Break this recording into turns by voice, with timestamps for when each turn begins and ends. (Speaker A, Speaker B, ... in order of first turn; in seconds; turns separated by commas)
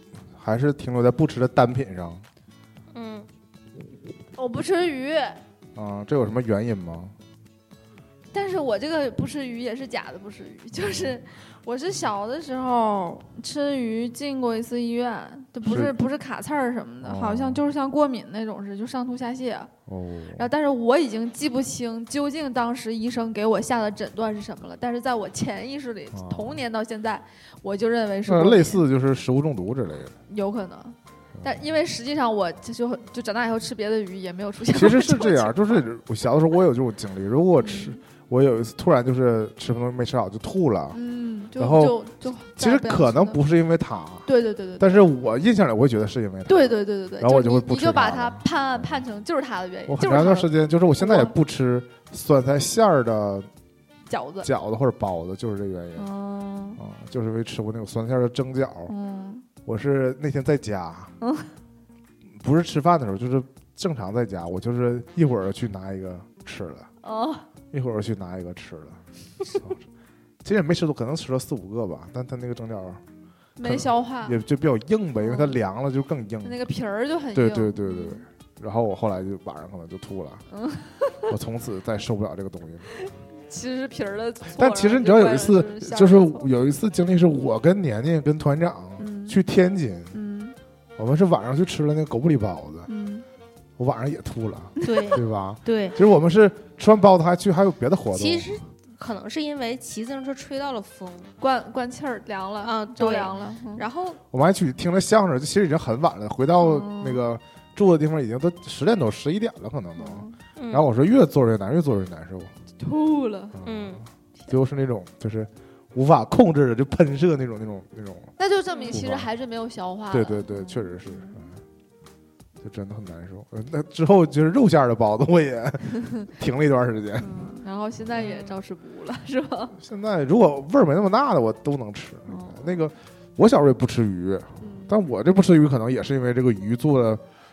Speaker A: 0.3-2.2, Speaker B: 2.9-3.3, Speaker C: 4.4-5.4, Speaker A: 5.8-7.2, Speaker C: 8.3-19.7, Speaker A: 10.8-11.2, Speaker A: 15.6-16.0, Speaker A: 17.0-17.6, Speaker A: 19.9-20.5, Speaker C: 20.4-28.8, Speaker A: 26.1-26.6, Speaker A: 28.3-30.1, Speaker C: 30.3-35.8, Speaker A: 31.4-31.6, Speaker A: 34.7-41.0, Speaker C: 37.6-38.0, Speaker C: 40.9-43.4, Speaker A: 41.6-44.3, Speaker C: 44.3-45.1, Speaker A: 44.8-49.0, Speaker C: 46.5-51.3, Speaker A: 49.9-53.5, Speaker C: 54.1-54.5, Speaker A: 54.4-56.1, Speaker C: 56.0-56.8, Speaker A: 56.8-58.9, Speaker C: 58.9-59.5, Speaker A: 59.7-61.1, Speaker C: 61.2-61.5, Speaker A: 62.4-66.9, Speaker C: 67.0-67.5, Speaker A: 67.7-69.0, Speaker A: 69.5-69.8, Speaker A: 70.4-73.0, Speaker C: 73.6-74.4, Speaker A: 73.6-76.6, Speaker C: 76.4-78.2, Speaker A: 77.3-80.4, Speaker C: 80.5-81.3, Speaker A: 81.3-82.9, Speaker C: 83.0-86.5, Speaker A: 84.5-90.2, Speaker C: 89.0-89.4, Speaker C: 90.1-90.6, Speaker A: 91.0-92.9, Speaker C: 92.9-93.2, Speaker A: 93.8-98.6, Speaker B: 94.8-96.0, Speaker B: 98.1-101.3, Speaker C: 101.4-103.8, Speaker B: 102.6-104.2, Speaker A: 104.3-112.5, Speaker C: 106.6-107.2, Speaker C: 110.0-110.4, Speaker B: 110.6-110.9, Speaker C: 112.8-113.6, Speaker A: 113.5-118.3, Speaker B: 113.6-114.0, Speaker C: 118.4-121.5, Speaker A: 118.9-119.3, Speaker A: 120.1-121.6, Speaker A: 122.6-127.3, Speaker C: 127.2-129.8, Speaker A: 129.8-137.2, Speaker C: 132.3-132.8, Speaker C: 134.6-135.0